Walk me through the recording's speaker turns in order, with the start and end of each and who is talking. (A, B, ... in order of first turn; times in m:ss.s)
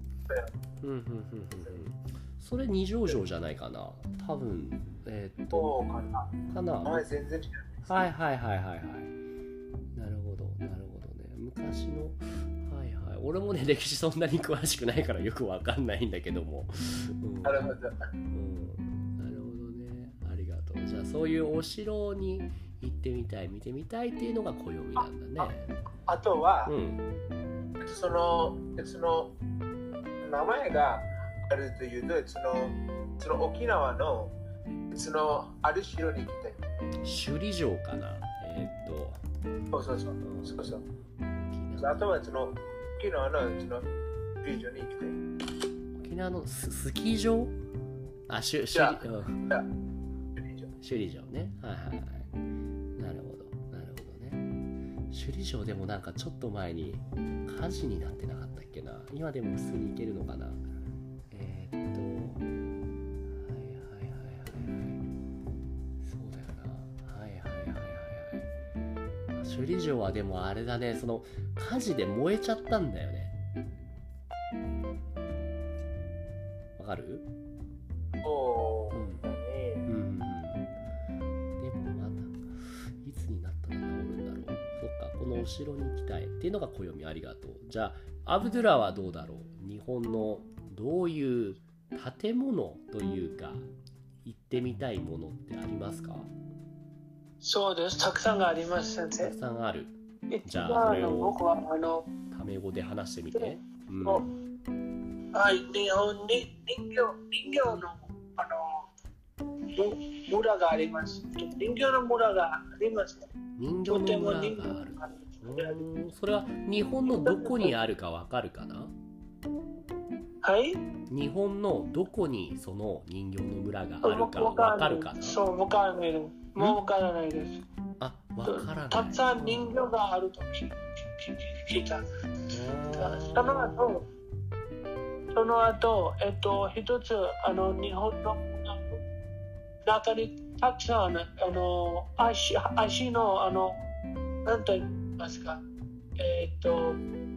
0:00.8-0:05.8 A
0:05.5-0:06.3 B
0:06.5-0:07.0 A
0:06.8-0:08.1 B
0:07.9-0:09.1 A
0:09.9-0:17.7 A
0:17.4-0:18.0 B
0:18.3-0:25.7 A
0:26.1-0:26.7 B
0:26.7-0:27.0 A
0:27.8-0:29.4 B
0:30.2-0:34.4 B
0:34.9-0:36.6 B
0:37.0-0:39.2 A
0:39.7-0:40.8 B
0:40.2-0:40.8 A
0:41.4-0:42.0 A
0:41.8-0:43.9 B
0:44.4-0:45.2 B
0:46.0-0:47.6 A
0:48.3-0:49.4 A
0:48.7-0:49.7 B
0:50.4-0:50.7 B
0:50.8-0:52.3 A
0:53.0-0:54.4 A
0:55.1-1:00.6 A
1:01.3-1:02.4 A
1:03.4-1:05.0 A
1:06.0-1:08.5 A
1:09.3-1:13.3 A
1:16.8-1:17.3 A
1:18.2-1:19.9 B
1:18.9-1:19.2 A
1:19.9-1:20.7 A
1:21.6-1:33.7 A
1:34.2-1:36.3 A
1:37.4-1:39.3 C
1:39.2-1:41.4 A
1:40.3-1:42.1 C
1:42.3-1:44.2 A
1:43.3-1:44.2 C
1:45.3-1:48.9 C
1:49.8-1:53.3 C
1:53.6-1:58.9 A
1:53.9-1:55.8 C
1:57.1-1:57.8 C
2:00.4-2:00.8 C
2:01.1-2:05.4 A
2:04.0-2:07.6 C
2:08.0-2:09.8 A
2:08.4-2:12.0 C
2:12.5-2:13.9 A
2:13.0-2:14.1 C
2:15.3-2:19.0 C
2:19.8-2:23.8 C
2:24.4-2:25.6 C
2:26.2-2:27.0 C